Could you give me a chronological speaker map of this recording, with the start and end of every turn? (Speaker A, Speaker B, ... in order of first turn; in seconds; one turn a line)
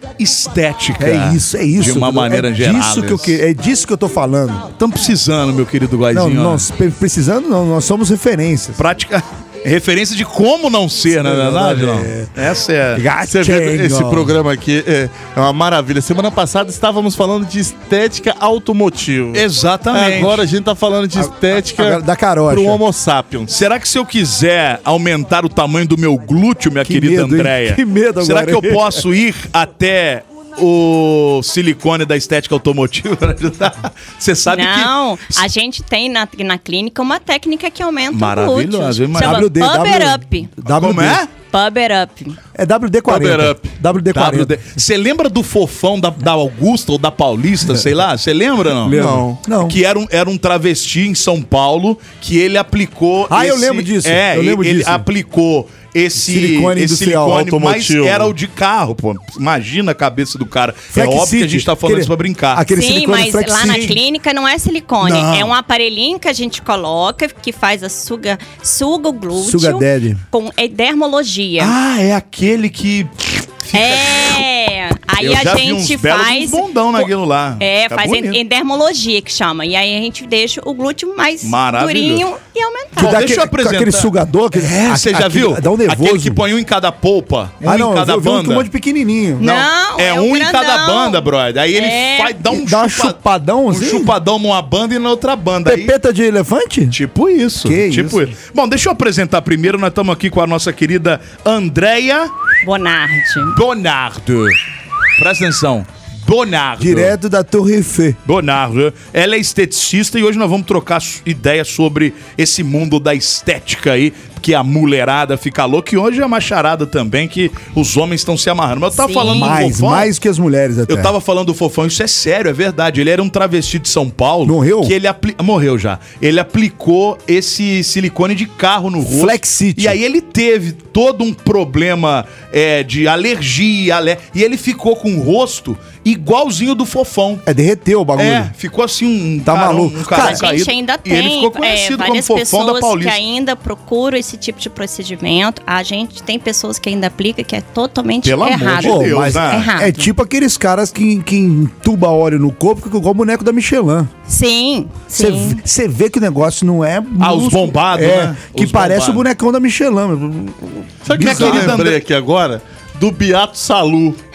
Speaker A: 0.2-3.4
Speaker B: 1.0-4.7
Speaker A: 4.7-6.7
Speaker B: 6.1-8.8
Speaker A: 8.8-13.0
Speaker B: 11.2-12.3
Speaker B: 12.9-14.4
Speaker C: 13.2-23.6
Speaker A: 19.3-20.4
Speaker B: 21.1-22.8
Speaker A: 23.5-35.4
Speaker B: 26.8-29.0
Speaker D: 34.5-40.5
Speaker A: 38.1-39.5
Speaker B: 39.1-41.2
Speaker A: 40.7-41.3
Speaker D: 41.5-42.4
Speaker B: 42.5-44.5
Speaker C: 43.1-43.6
Speaker A: 44.1-49.1
Speaker B: 48.8-49.8
Speaker C: 48.9-49.4
Speaker A: 49.6-62.7
Speaker B: 53.3-55.0
Speaker B: 56.1-57.5
Speaker C: 57.4-58.3
Speaker B: 60.9-64.0
Speaker D: 62.7-71.7
Speaker A: 65.0-65.5
Speaker B: 69.3-70.2
Speaker A: 71.6-74.4
Speaker D: 73.7-83.2
Speaker A: 75.2-78.4
Speaker A: 81.4-82.2
Speaker B: 83.0-86.4
Speaker A: 83.0-88.7
Speaker B: 87.6-89.4
Speaker D: 89.4-92.4
Speaker A: 89.4-95.9
Speaker B: 92.5-94.1
Speaker B: 95.6-97.0
Speaker A: 96.9-102.3
Speaker B: 97.6-98.3
Speaker D: 102.6-103.6
Speaker A: 103.5-104.5
Speaker A: 105.2-107.1
Speaker B: 106.8-108.2
Speaker A: 108.2-120.1
Speaker D: 118.9-119.5
Speaker B: 119.2-121.1
Speaker A: 120.9-137.4
Speaker B: 124.4-124.9
Speaker B: 129.0-130.0
Speaker B: 137.4-138.5
Speaker A: 138.2-143.2
Speaker B: 139.5-140.5
Speaker D: 140.1-150.0
Speaker A: 148.2-149.7
Speaker B: 148.8-154.1
Speaker D: 154.3-155.6
Speaker B: 155.1-161.8
Speaker A: 157.2-159.2
Speaker C: 161.1-164.2
Speaker A: 161.2-162.0